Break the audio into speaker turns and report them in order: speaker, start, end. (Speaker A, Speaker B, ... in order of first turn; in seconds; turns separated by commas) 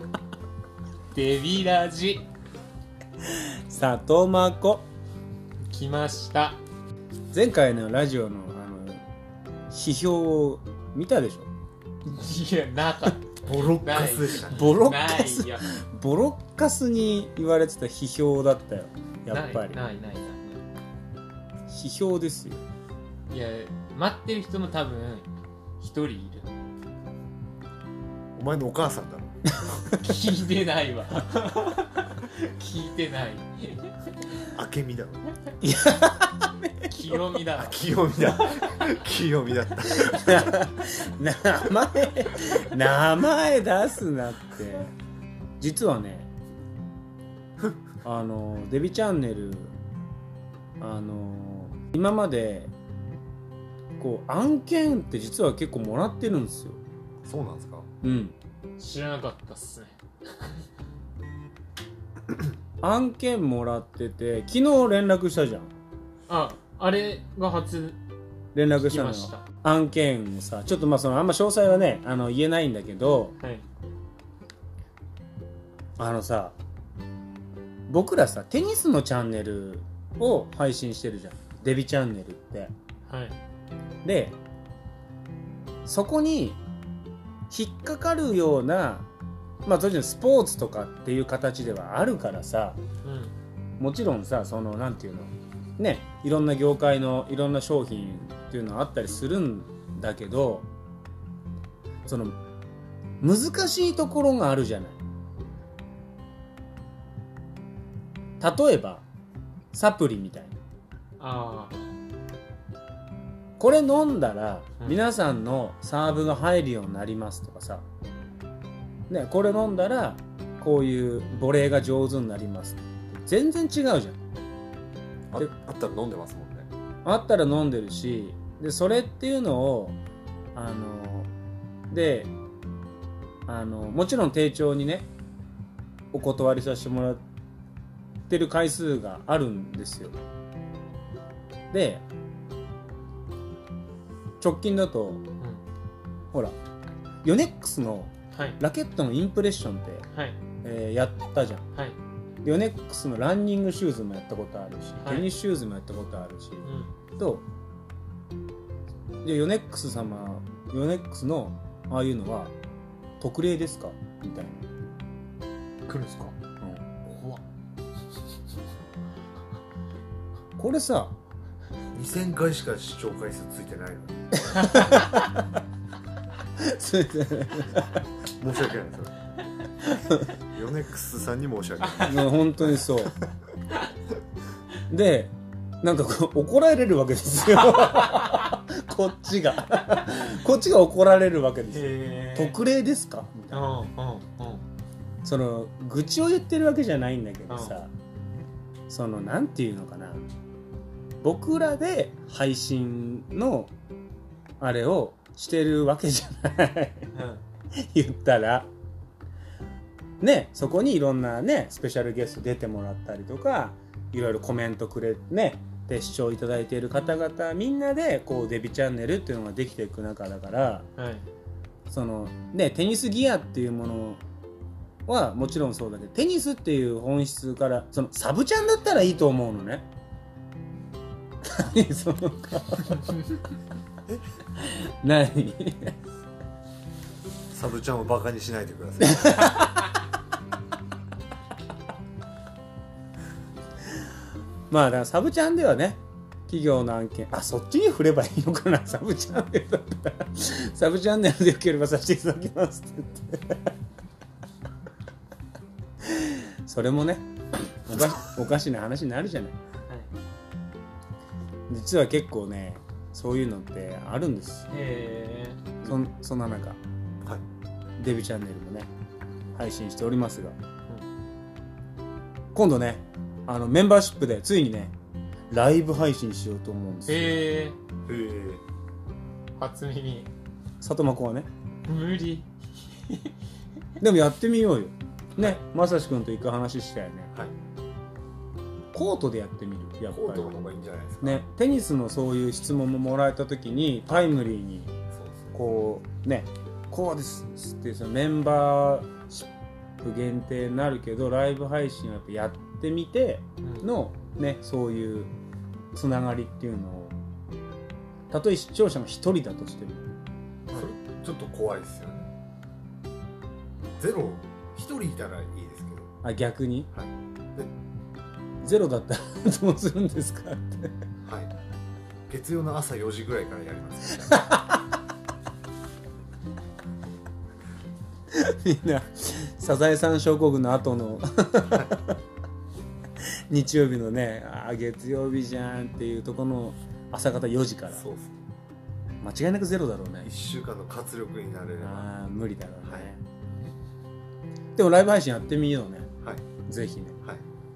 Speaker A: 1.1-2.3, Speaker B: 3.3-4.9, Speaker A: 5.7-6.6, Speaker B: 7.3-9.0, Speaker B: 9.7-11.5, Speaker A: 12.1-15.6, Speaker C: 13.5-14.9, Speaker B: 14.5-19.8, Speaker A: 19.3-20.6, Speaker B: 21.7-22.6, Speaker A: 23.3-25.3, Speaker A: 25.8-26.5, Speaker C: 28.4-29.5, Speaker A: 30.0-34.3, Speaker C: 34.5-35.2, Speaker B: 35.6-37.5, Speaker A: 36.8-38.8, Speaker C: 37.5-40.5, Speaker B: 39.9-44.9, Speaker B: 45.6-46.3, Speaker B: 48.0-49.7, Speaker B: 50.8-52.7, Speaker B: 54.0-56.8, Speaker C: 57.2-57.9, Speaker B: 58.0-58.4, Speaker A: 58.8-60.6, Speaker B: 62.8-65.7, Speaker A: 66.3-68.0, Speaker B: 68.5-73.3, Speaker A: 68.8-69.5, Speaker A: 73.4-73.7, Speaker B: 76.0-76.5, Speaker B: 77.9-82.7, Speaker A: 83.1-83.4, Speaker B: 84.0-84.4, Speaker B: 85.8-86.6, Speaker B: 87.5-89.1, Speaker B: 89.7-92.8, Speaker A: 93.0-93.3, Speaker B: 93.8-100.7, Speaker B: 102.1-102.4, Speaker B: 103.2-105.0, Speaker B: 108.4-109.0, Speaker B: 109.7-110.6, Speaker A: 111.2-111.9, Speaker B: 113.6-117.8, Speaker B: 119.1-124.2, Speaker C: 125.3-126.7, Speaker B: 127.0-130.0, Speaker B: 130.6-131.3, Speaker B: 131.9-132.3, Speaker B: 133.5-135.1, Speaker B: 136.1-137.2, Speaker B: 138.3-140.2, Speaker B: 141.7-142.0, Speaker B: 144.4-145.2, Speaker B: 147.2-150.1, Speaker A: 148.3-148.6, Speaker A: 150.1-150.4, Speaker B: 150.6-151.7, Speaker B: 152.4-157.4, Speaker A: 155.0-155.3, Speaker A: 156.6-156.9, Speaker B: 159.2-162.5, Speaker B: 163.2-164.7, Speaker A: 165.9-166.4, Speaker A: 167.1-167.4, Speaker B: 170.6-171.2, Speaker C: 171.9-175.0, Speaker B: 174.4-175.3, Speaker B: 176.6-178.0, Speaker C: 178.3-179.1, Speaker B: 179.8-180.3, Speaker C: 180.4-182.4, Speaker B: 182.0-183.2, Speaker B: 184.9-193.8, Speaker A: 191.7-192.5, Speaker A: 193.5-194.6, Speaker B: 195.2-197.9, Speaker A: 197.5-197.8, Speaker B: 198.9-200.2, Speaker B: 201.2-203.7, Speaker B: 204.6-207.1, Speaker A: 207.1-207.4, Speaker B: 207.7-208.7, Speaker B: 210.2-220.9, Speaker A: 221.0-221.2, Speaker B: 221.9-224.2, Speaker B: 225.1-229.9, Speaker B: 231.4-233.4, Speaker B: 234.6-236.0, Speaker C: 237.5-239.5, Speaker B: 239.0-239.9, Speaker B: 244.7-253.7, Speaker B: 256.0-257.3, Speaker B: 257.9-259.6, Speaker B: 261.7-264.7, Speaker A: 264.7-265.7, Speaker B: 265.9-266.8, Speaker B: 268.0-268.9, Speaker B: 269.6-270.6, Speaker B: 272.5-274.9, Speaker B: 275.5-277.5, Speaker A: 277.1-277.8, Speaker C: 278.1-278.6, Speaker A: 279.6-280.3, Speaker B: 280.8-281.5, Speaker A: 281.9-283.3, Speaker B: 284.0-287.3, Speaker B: 288.9-290.6, Speaker C: 290.1-291.4, Speaker B: 291.2-294.9, Speaker C: 295.1-295.6, Speaker B: 295.6-299.5, Speaker B: 300.0-305.3, Speaker A: 303.6-303.9, Speaker B: 305.9-307.1, Speaker B: 308.3-310.1, Speaker C: 310.7-312.3, Speaker C: 314.0-316.1, Speaker B: 316.2-316.9, Speaker C: 316.9-317.7, Speaker B: 318.6-320.9, Speaker C: 321.2-321.5, Speaker C: 322.3-324.5, Speaker B: 324.4-324.8, Speaker B: 328.3-332.2, Speaker B: 333.5-338.0, Speaker C: 337.9-338.4, Speaker B: 339.2-340.3, Speaker C: 340.2-342.1, Speaker B: 341.8-343.2, Speaker C: 342.9-343.1, Speaker B: 344.8-347.2, Speaker C: 346.2-346.6